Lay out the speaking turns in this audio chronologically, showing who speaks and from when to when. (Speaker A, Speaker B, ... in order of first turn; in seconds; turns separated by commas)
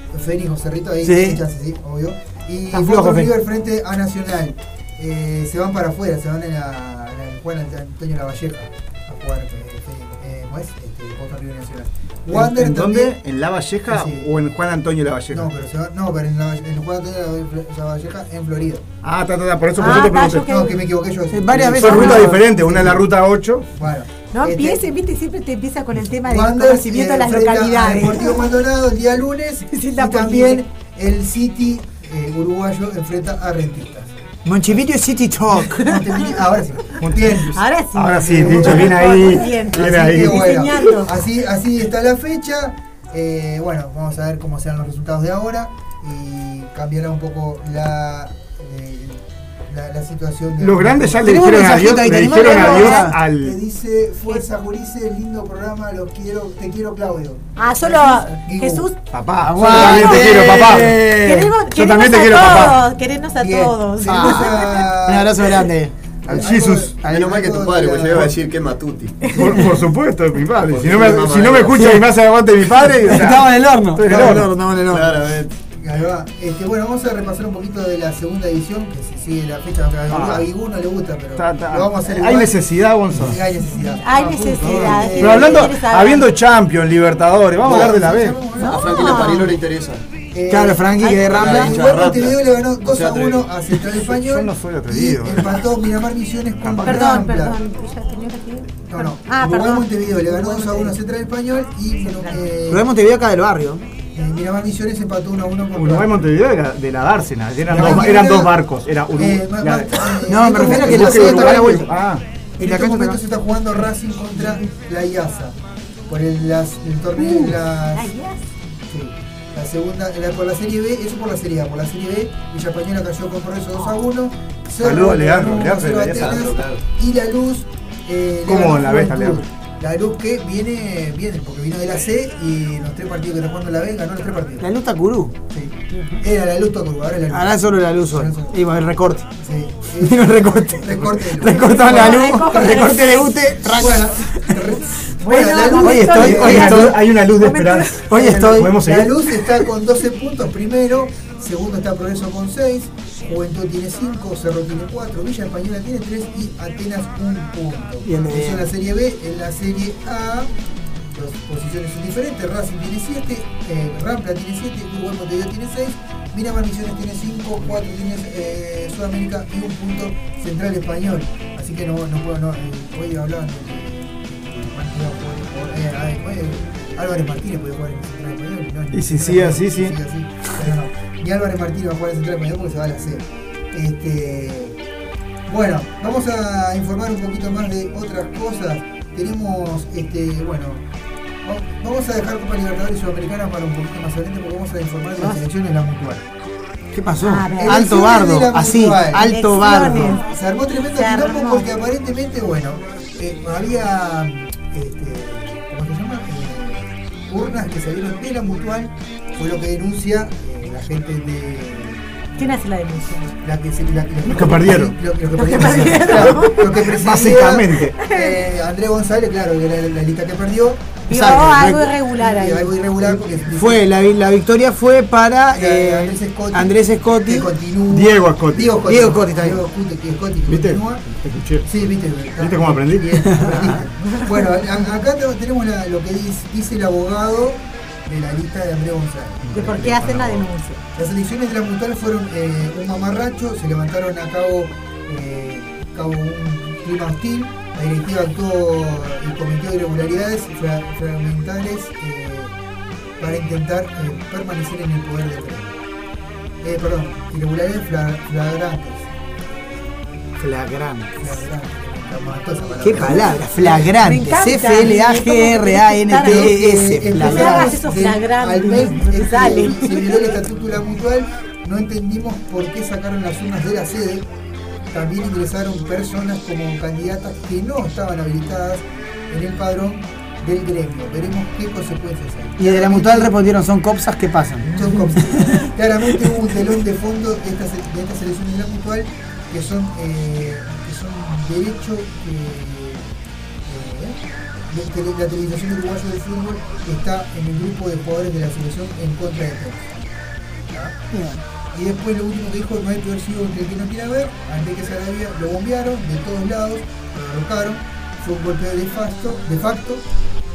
Speaker A: 0.1-13.1, Speaker B: 1.0-1.4, Speaker B: 2.7-3.3, Speaker C: 12.3-15.5, Speaker A: 13.9-14.3, Speaker A: 15.3-18.8, Speaker C: 19.0-20.4, Speaker D: 19.8-20.8, Speaker A: 19.8-23.1, Speaker B: 21.3-22.5, Speaker C: 21.8-23.7, Speaker A: 23.7-24.9, Speaker D: 24.3-28.5, Speaker A: 26.2-34.1, Speaker D: 29.7-30.6, Speaker B: 34.4-35.8, Speaker A: 35.7-37.5, Speaker D: 35.8-36.2, Speaker C: 37.0-40.7, Speaker D: 37.5-41.1, Speaker A: 38.2-39.0, Speaker A: 39.6-51.5, Speaker C: 50.6-53.6, Speaker B: 51.2-53.2, Speaker D: 52.3-53.1, Speaker A: 52.3-58.9, Speaker D: 57.6-59.0, Speaker C: 59.1-61.0, Speaker B: 59.4-61.5, Speaker D: 59.6-64.8, Speaker A: 59.6-60.0, Speaker C: 61.7-62.8, Speaker A: 63.4-65.6, Speaker B: 64.0-65.9, Speaker C: 66.3-66.9, Speaker A: 66.3-68.4, Speaker E: 67.0-69.2, Speaker D: 69.2-69.7, Speaker C: 69.2-74.5, Speaker E: 70.7-71.8, Speaker B: 71.5-75.3, Speaker E: 74.9-75.5, Speaker A: 75.8-82.6, Speaker C: 80.1-80.5, Speaker C: 81.4-83.4, Speaker A: 83.1-85.7, Speaker D: 83.7-86.3, Speaker C: 85.2-88.4, Speaker A: 87.6-88.8, Speaker B: 88.6-88.9, Speaker E: 88.6-90.0, Speaker D: 88.7-89.5, Speaker A: 90.3-97.6, Speaker B: 90.5-91.8, Speaker E: 91.2-93.5, Speaker C: 93.9-95.6, Speaker C: 96.6-97.2, Speaker D: 96.8-101.0, Speaker A: 98.9-102.9, Speaker D: 102.1-102.5, Speaker B: 102.7-103.8, Speaker A: 104.1-106.2, Speaker C: 105.7-112.2, Speaker B: 107.7-108.2, Speaker A: 107.7-108.6, Speaker A: 109.2-111.9, Speaker B: 110.2-111.9, Speaker A: 112.6-115.5, Speaker B: 112.6-113.2, Speaker A: 116.1-118.1, Speaker D: 117.9-118.4, Speaker A: 118.9-134.7, Speaker C: 124.8-126.5, Speaker E: 126.1-126.8, Speaker C: 128.4-129.4, Speaker B: 134.6-135.3, Speaker A: 135.5-138.5, Speaker B: 137.3-139.3, Speaker A: 139.4-142.8, Speaker B: 140.0-144.5, Speaker D: 141.4-143.4, Speaker A: 143.6-146.9, Speaker D: 145.2-148.0, Speaker B: 145.8-147.0, Speaker C: 146.1-149.1, Speaker B: 148.1-148.9, Speaker A: 148.1-160.5, Speaker B: 158.0-158.7, Speaker A: 161.1-184.8, Speaker C: 178.9-179.9, Speaker A: 185.5-190.8, Speaker A: 191.4-196.2, Speaker B: 196.9-200.2, Speaker D: 197.2-197.9, Speaker A: 197.6-212.5, Speaker D: 199.2-200.3, Speaker D: 200.9-201.7, Speaker D: 212.4-213.3, Speaker A: 213.4-221.3, Speaker C: 214.3-214.9, Speaker D: 215.4-216.7, Speaker C: 215.8-218.0, Speaker D: 218.0-218.4, Speaker D: 221.1-222.7, Speaker B: 221.1-221.9, Speaker A: 222.1-223.9, Speaker B: 223.5-227.5, Speaker A: 225.5-231.0, Speaker C: 227.9-228.9, Speaker B: 228.9-229.6, Speaker C: 230.5-231.7, Speaker A: 231.7-240.2, Speaker C: 232.4-233.6, Speaker B: 233.3-233.8, Speaker C: 239.5-240.4, Speaker D: 239.5-240.8, Speaker A: 240.9-252.5, Speaker A: 253.2-255.8, Speaker A: 256.6-259.9, Speaker B: 260.4-261.1, Speaker A: 261.2-263.9, Speaker B: 262.8-267.7, Speaker D: 264.0-266.6, Speaker A: 266.2-274.2, Speaker D: 267.1-270.2, Speaker A: 274.9-283.3, Speaker B: 282.6-285.7, Speaker A: 284.6-293.1, Speaker A: 293.7-294.2, Speaker A: 294.7-300.0, Speaker A: 300.7-300.9, Speaker B: 301.1-301.4, Speaker A: 301.7-310.0